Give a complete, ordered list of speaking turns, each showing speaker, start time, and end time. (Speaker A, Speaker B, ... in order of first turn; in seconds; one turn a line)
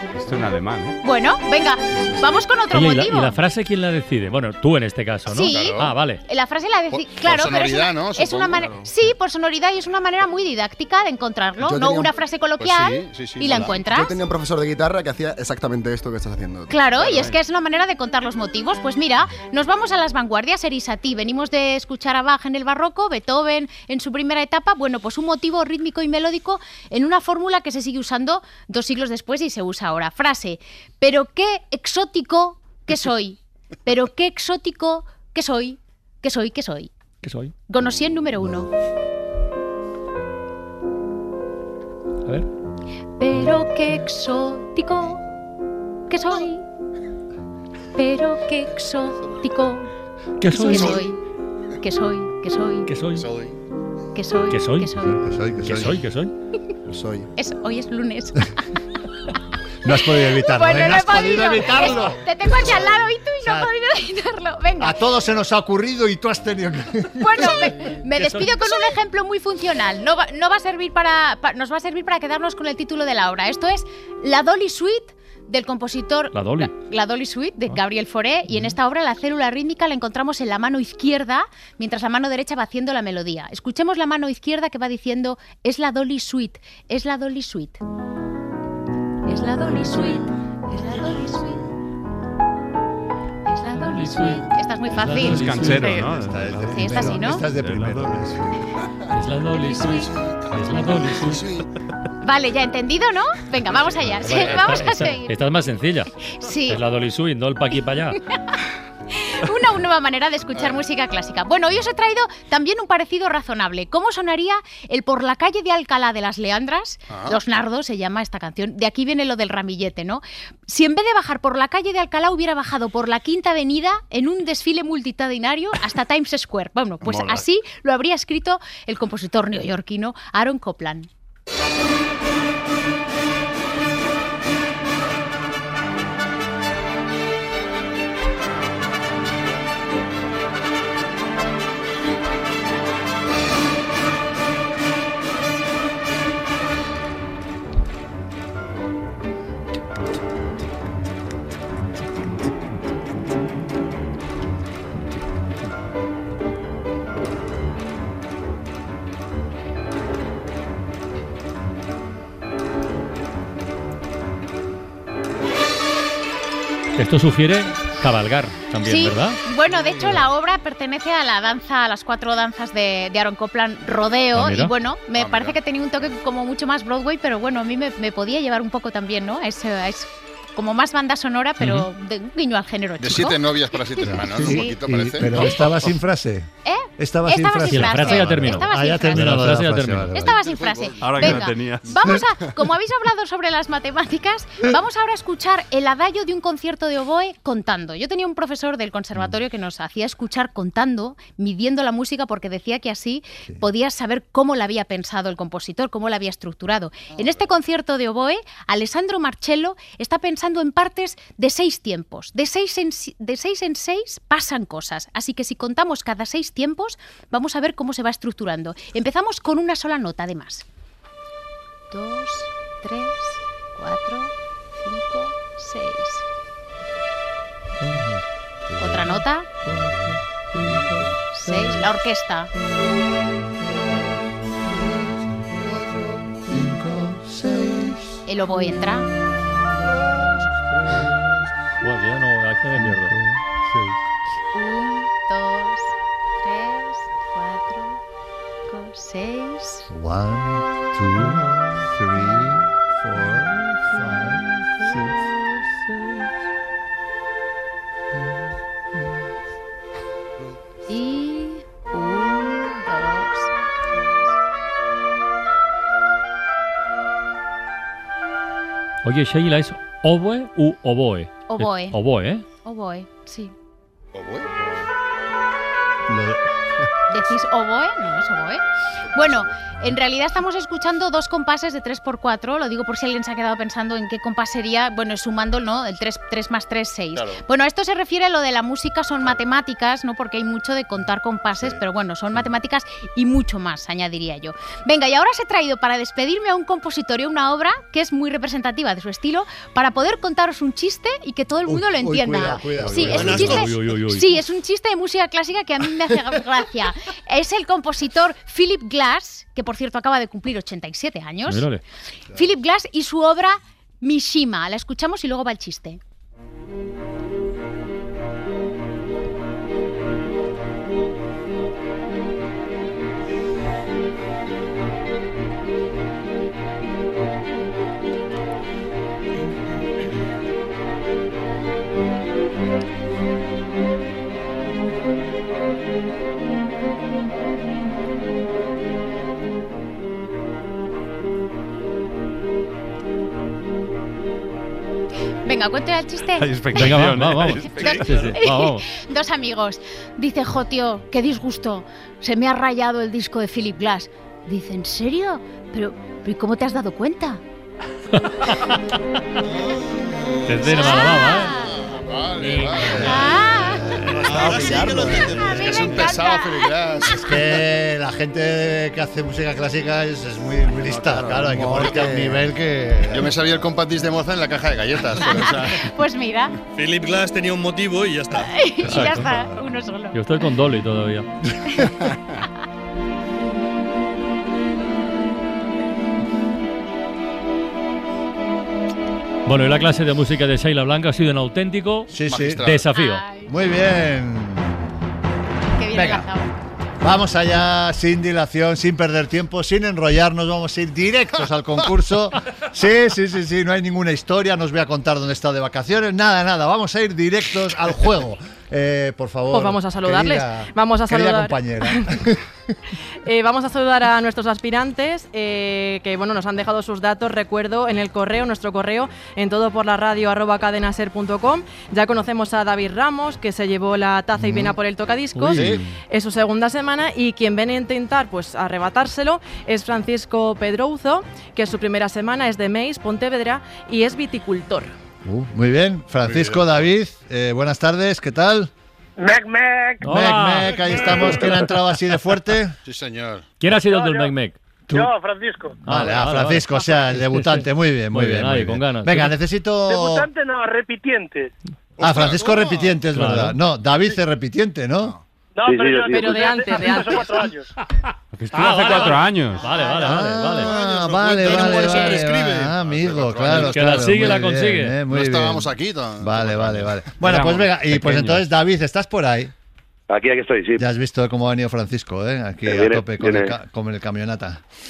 Speaker A: 0.1-0.9
Speaker B: 1.0-3.4
Speaker C: 2.7-6.2
Speaker B: 5.3-14.2
Speaker D: 5.5-5.9
Speaker D: 6.9-8.9
Speaker E: 11.6-12.2
Speaker D: 12.6-13.7
Speaker E: 13.6-17.0
Speaker B: 16.7-36.9
Speaker C: 37.2-37.5
Speaker B: 37.7-38.7
Speaker B: 43.2-45.2
Speaker B: 46.1-46.6
Speaker B: 48.0-49.9
Speaker C: 50.4-51.0
Speaker B: 50.5-51.2
Speaker B: 51.8-52.9
Speaker C: 52.9-53.3
Speaker D: 53.2-53.5
Speaker B: 54.1-55.2
Speaker C: 54.5-56.3
Speaker F: 55.2-56.0
Speaker E: 56.9-57.3
Speaker B: 57.4-58.4
Speaker F: 59.8-63.7
Speaker B: 60.4-65.0
Speaker F: 64.8-67.5
Speaker B: 67.2-87.8
Speaker C: 67.8-69.0
Speaker C: 76.3-76.7
Speaker C: 78.5-78.7
Speaker B: 89.2-91.6
Speaker C: 89.7-90.0
Speaker B: 93.5-96.1
Speaker C: 93.7-96.0
Speaker A: 95.2-96.8
Speaker F: 96.1-98.6
Speaker B: 96.6-97.4
Speaker A: 97.5-98.1
Speaker C: 99.1-101.5
Speaker B: 99.6-100.1
Speaker B: 102.2-105.4
Speaker C: 104.2-106.1
Speaker B: 106.3-106.8
Speaker C: 106.7-108.2
Speaker B: 109.3-131.1
Speaker D: 117.1-117.4
Speaker C: 166.9-169.4
Speaker B: 168.8-185.6
Speaker C: 174.3-174.7
Speaker D: 175.1-175.6
Speaker C: 181.6-181.8
Speaker D: 183.0-185.5
Speaker F: 184.1-190.3
Speaker B: 186.6-189.4
Speaker C: 187.7-190.1
Speaker B: 190.1-220.6
Speaker D: 190.3-191.1
Speaker A: 191.0-191.9
Speaker B: 221.9-226.2
Speaker F: 228.7-231.1
Speaker B: 228.8-229.5
Speaker C: 229.7-230.0
Speaker B: 231.3-232.5
Speaker F: 234.7-235.1
Speaker F: 235.6-238.2
Speaker B: 238.3-239.1
Speaker F: 240.0-240.2
Speaker C: 240.7-243.2
Speaker F: 242.7-244.0
Speaker B: 244.5-248.0
Speaker B: 248.7-249.8
Speaker F: 249.9-255.2
Speaker C: 254.2-256.2
Speaker B: 260.9-264.3
Speaker C: 269.0-272.4
Speaker B: 271.5-272.0
Speaker B: 272.6-273.5
Speaker D: 274.1-274.6
Speaker F: 276.1-276.4
Speaker B: 277.1-278.6
Speaker B: 279.1-311.7
Speaker D: 287.1-287.4
Speaker F: 301.7-303.6
Speaker C: 302.8-304.3
Speaker G: 303.0-303.7
Speaker C: 311.5-311.8
Speaker B: 312.3-316.0
Speaker B: 345.4-346.9
Speaker A: 346.4-348.0
Speaker C: 346.7-348.8
Speaker B: 347.6-357.4
Speaker G: 348.0-348.3
Speaker C: 360.5-361.5
Speaker B: 360.7-361.8
Speaker D: 361.6-363.4
Speaker C: 362.4-362.9
Speaker F: 362.9-364.0
Speaker B: 362.9-364.0
Speaker C: 364.0-365.4
Speaker G: 364.1-365.8
Speaker B: 365.0-366.7
Speaker D: 365.5-367.3
Speaker F: 367.1-373.3
Speaker D: 371.7-372.2
Speaker D: 373.1-375.8
Speaker B: 375.4-376.5
Speaker G: 376.7-378.5
Speaker B: 378.5-380.3
Speaker C: 378.9-379.3
Speaker C: 380.1-381.3
Speaker C: 389.4-392.1
Speaker F: 392.1-392.7
Speaker D: 392.2-392.9
Speaker C: 392.6-393.2
Speaker B: 392.9-393.6
Speaker F: 393.4-394.7
Speaker B: 395.7-396.5
Speaker F: 395.9-396.3
Speaker F: 397.0-412.4
Speaker H: 409.5-411.6
Speaker H: 413.2-434.9
Speaker F: 424.4-424.7
Speaker C: 425.3-425.6
Speaker F: 425.5-425.9
Speaker D: 425.6-425.8
Speaker F: 435.2-438.7
Speaker D: 436.2-436.9
Speaker I: 439.2-440.0
Speaker C: 440.0-441.6
Speaker F: 440.0-442.8
Speaker D: 442.8-443.5
Speaker C: 443.6-444.6
Speaker I: 443.8-444.3
Speaker I: 444.9-445.8
Speaker F: 445.8-450.3
Speaker C: 445.9-449.3
Speaker I: 449.9-451.5
Speaker D: 452.0-453.0
Speaker F: 452.0-455.1
Speaker C: 453.1-453.6
Speaker I: 455.5-457.7
Speaker J: 455.6-456.3
Speaker H: 456.1-457.2
Speaker A: 458.3-459.7
Speaker C: 458.5-460.7
Speaker F: 459.9-469.5
Speaker G: 460.6-462.7
Speaker D: 461.1-464.0
Speaker C: 463.6-465.0
Speaker D: 465.1-467.0
Speaker A: 467.3-467.6
Speaker C: 467.9-468.5
Speaker J: 470.1-470.8
Speaker F: 470.8-474.6
Speaker J: 472.6-473.5